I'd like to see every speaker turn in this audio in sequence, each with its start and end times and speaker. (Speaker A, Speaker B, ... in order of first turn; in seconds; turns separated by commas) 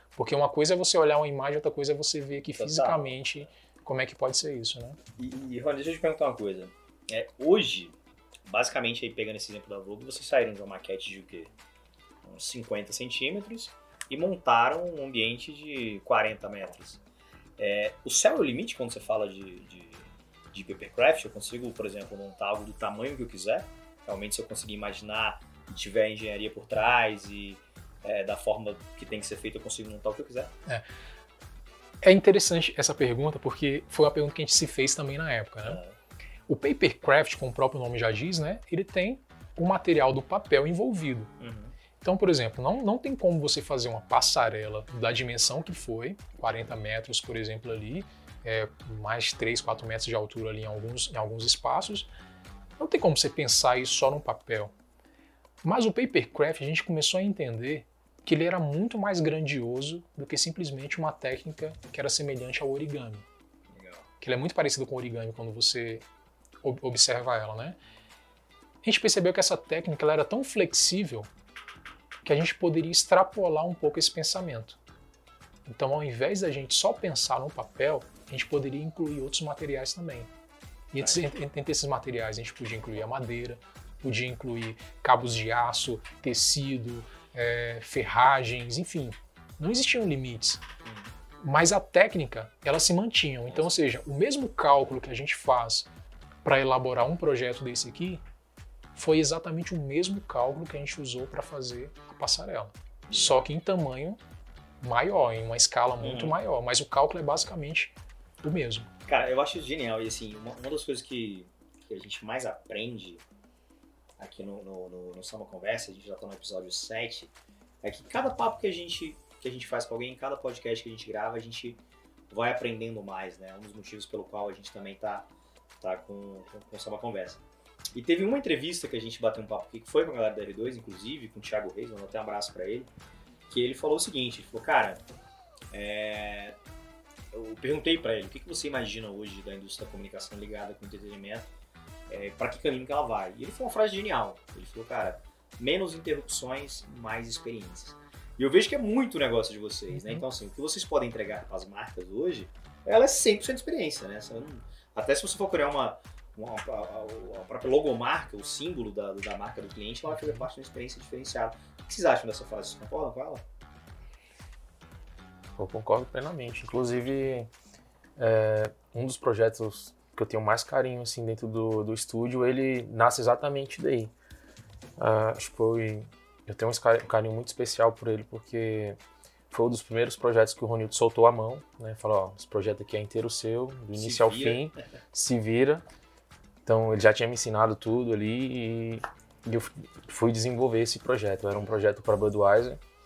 Speaker A: 0.2-5.0, Speaker B: 2.5-3.5, Speaker B: 5.2-8.0, Speaker B: 8.5-11.5, Speaker B: 12.2-17.0, Speaker B: 17.6-30.5, Speaker A: 32.0-35.8, Speaker B: 35.6-36.0, Speaker A: 36.5-41.3, Speaker B: 41.4-41.7, Speaker A: 42.0-52.1, Speaker A: 52.8-54.7, Speaker A: 55.6-63.2, Speaker B: 63.7-64.0, Speaker A: 64.2-66.0, Speaker A: 66.6-67.8, Speaker A: 68.8-71.3, Speaker A: 72.2-74.8, Speaker A: 75.7-80.3, Speaker A: 80.9-90.6, Speaker B: 81.0-81.2, Speaker A: 91.4-95.9, Speaker A: 96.4-98.2, Speaker A: 99.0-104.2, Speaker B: 103.1-103.4, Speaker A: 104.8-108.9, Speaker B: 106.0-106.4, Speaker B: 109.1-113.2, Speaker B: 114.2-117.3, Speaker B: 117.8-125.3, Speaker B: 125.8-127.4, Speaker B: 127.9-132.9, Speaker B: 133.5-135.0, Speaker B: 135.7-136.6, Speaker B: 137.3-141.5, Speaker B: 142.1-163.4, Speaker A: 149.9-150.2, Speaker C: 165.6-167.5, Speaker C: 168.2-174.1, Speaker C: 175.0-179.0, Speaker C: 179.5-185.8, Speaker B: 183.9-184.7, Speaker C: 186.7-192.8